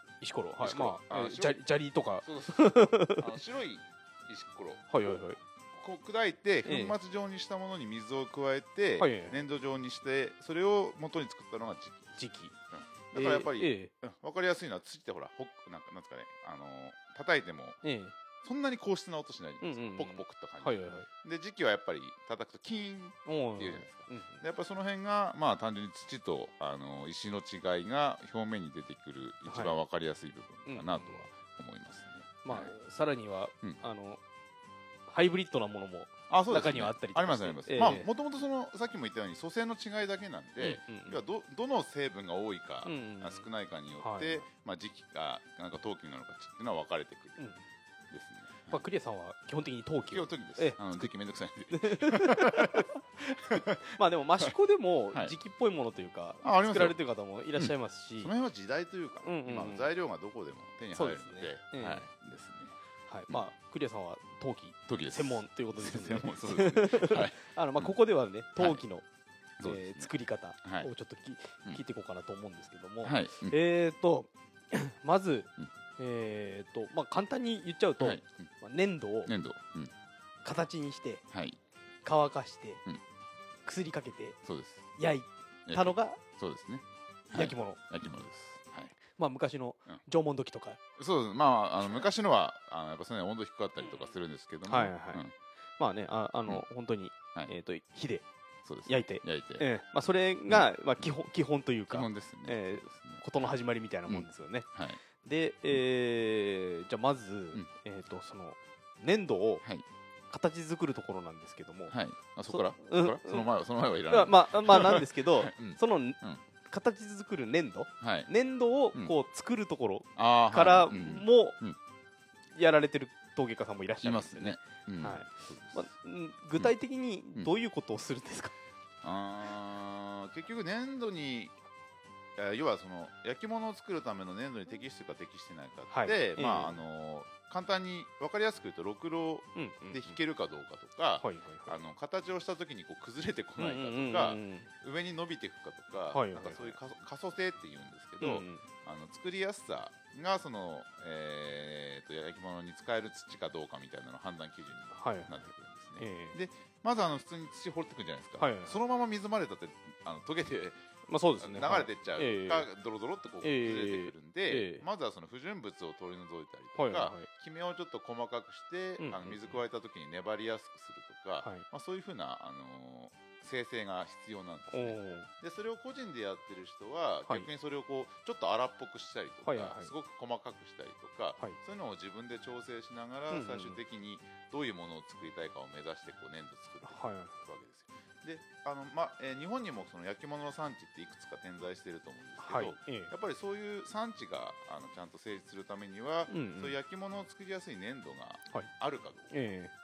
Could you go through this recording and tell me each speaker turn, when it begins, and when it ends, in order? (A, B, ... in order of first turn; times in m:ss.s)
0:00.2-0:03.3 A
0:00.6-0:01.6 B
0:02.2-0:17.8 B
0:04.9-0:05.4 A
0:06.6-0:07.0 A
0:09.0-0:09.4 A
0:12.2-0:12.5 A
0:13.1-0:13.9 A
0:17.8-0:18.1 A
0:18.4-0:32.7 B
0:19.6-0:21.1 A
0:23.2-0:24.4 A
0:29.5-0:29.8 A
0:30.7-0:31.3 A
0:32.4-0:34.2 A
0:35.1-0:38.1 A
0:36.3-0:47.4 B
0:40.6-0:41.2 A
0:42.8-0:43.5 A
0:44.0-0:44.4 A
0:47.4-0:47.6 A
0:48.1-0:48.9 B
0:48.7-0:51.1 A
0:50.1-0:54.5 B
0:51.7-0:53.0 A
0:53.5-0:58.3 A
0:56.4-0:57.0 B
0:57.6-1:02.8 B
0:59.2-0:59.9 A
1:00.9-1:02.1 A
1:03.1-1:09.0 A
1:04.9-1:07.9 B
1:09.6-1:10.1 B
1:09.6-1:19.3 A
1:10.6-1:10.9 B
1:13.0-1:13.6 B
1:18.0-1:18.5 B
1:19.2-1:19.9 B
1:20.4-1:21.2 A
1:21.3-1:21.6 B
1:22.0-1:22.8 A
1:23.6-1:24.4 A
1:24.4-1:24.9 B
1:25.0-1:26.2 A
1:25.6-1:28.9 B
1:27.3-1:27.8 A
1:29.0-1:30.8 A
1:31.0-1:35.3 B
1:31.8-1:32.1 A
1:34.7-1:35.2 A
1:35.8-1:38.2 A
1:38.6-1:39.6 B
1:38.8-1:44.7 A
1:40.5-1:41.1 B
1:41.9-1:43.5 B
1:44.1-1:45.0 B
1:45.2-1:49.6 A
1:50.3-1:51.9 A
1:51.9-1:56.4 B
1:52.5-1:53.5 A
1:54.1-2:01.6 A
1:58.0-1:58.3 B
2:00.2-2:01.8 B
2:02.5-2:08.5 A
2:04.0-2:05.9 B
2:09.0-2:11.5 B
2:12.4-2:40.8 B
2:15.9-2:16.8 A
2:19.6-2:20.2 A
2:21.2-2:21.8 A
2:23.6-2:24.7 A
2:26.1-2:26.8 A
2:28.2-2:28.6 A
2:34.9-2:35.3 A
2:36.0-2:36.4 A
2:38.4-2:38.8 A
2:41.1-2:42.7 A
2:41.4-3:19.3 B
2:43.4-2:44.8 A
2:46.8-2:47.3 A
2:49.0-2:49.6 A
2:54.7-2:55.3 A
2:59.4-2:59.9 A
3:03.3-3:03.8 A
3:06.8-3:07.3 A
3:12.4-3:13.1 A
3:16.3-3:16.8 A
3:19.3-3:19.7 A